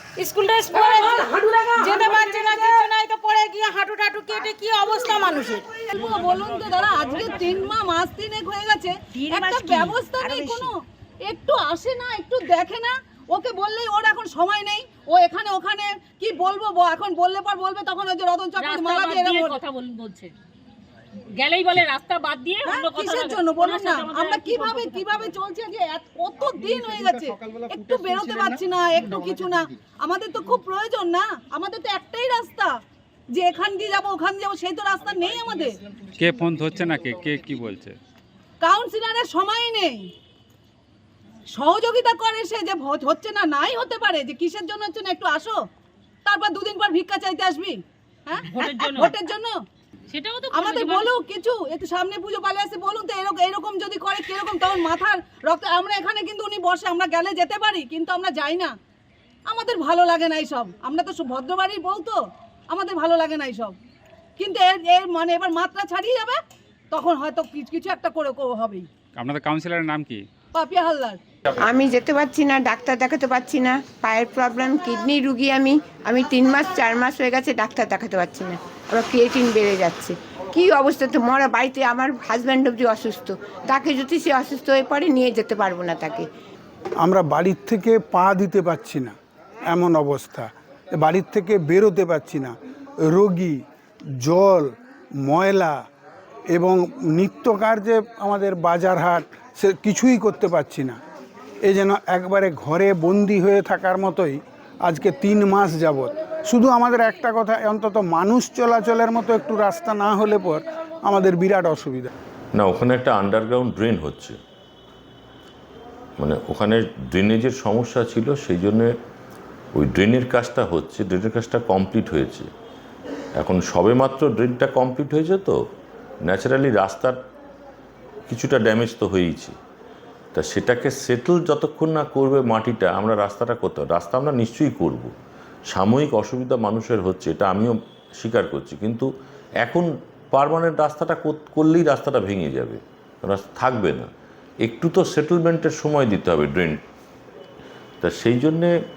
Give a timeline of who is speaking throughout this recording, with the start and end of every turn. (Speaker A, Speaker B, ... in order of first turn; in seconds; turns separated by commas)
Speaker A: 0.2-5.6, Speaker B: 5.9-19.6, Speaker C: 18.6-20.3, Speaker C: 21.4-25.2, Speaker B: 22.6-32.8, Speaker B: 33.3-35.8, Speaker D: 36.2-38.0, Speaker B: 38.6-40.1, Speaker B: 41.5-45.6, Speaker B: 46.2-49.6, Speaker C: 48.5-49.1, Speaker C: 50.1-51.1, Speaker B: 50.5-58.7, Speaker B: 59.5-63.8, Speaker B: 64.4-66.4, Speaker B: 66.9-68.9, Speaker D: 69.2-70.2, Speaker B: 70.5-71.2, Speaker E: 71.6-86.3, Speaker F: 87.0-89.2, Speaker F: 89.7-92.5, Speaker F: 93.1-93.6, Speaker F: 94.2-94.7, Speaker F: 95.3-95.8, Speaker F: 96.5-101.0, Speaker F: 101.7-112.1, Speaker G: 112.5-114.3, Speaker G: 116.2-118.9, Speaker G: 119.8-122.5, Speaker G: 123.4-125.5, Speaker G: 126.3-127.2, Speaker G: 128.3-129.6, Speaker G: 130.3-135.1, Speaker G: 135.7-139.1, Speaker G: 139.6-144.1, Speaker G: 144.6-146.8, Speaker G: 148.0-148.7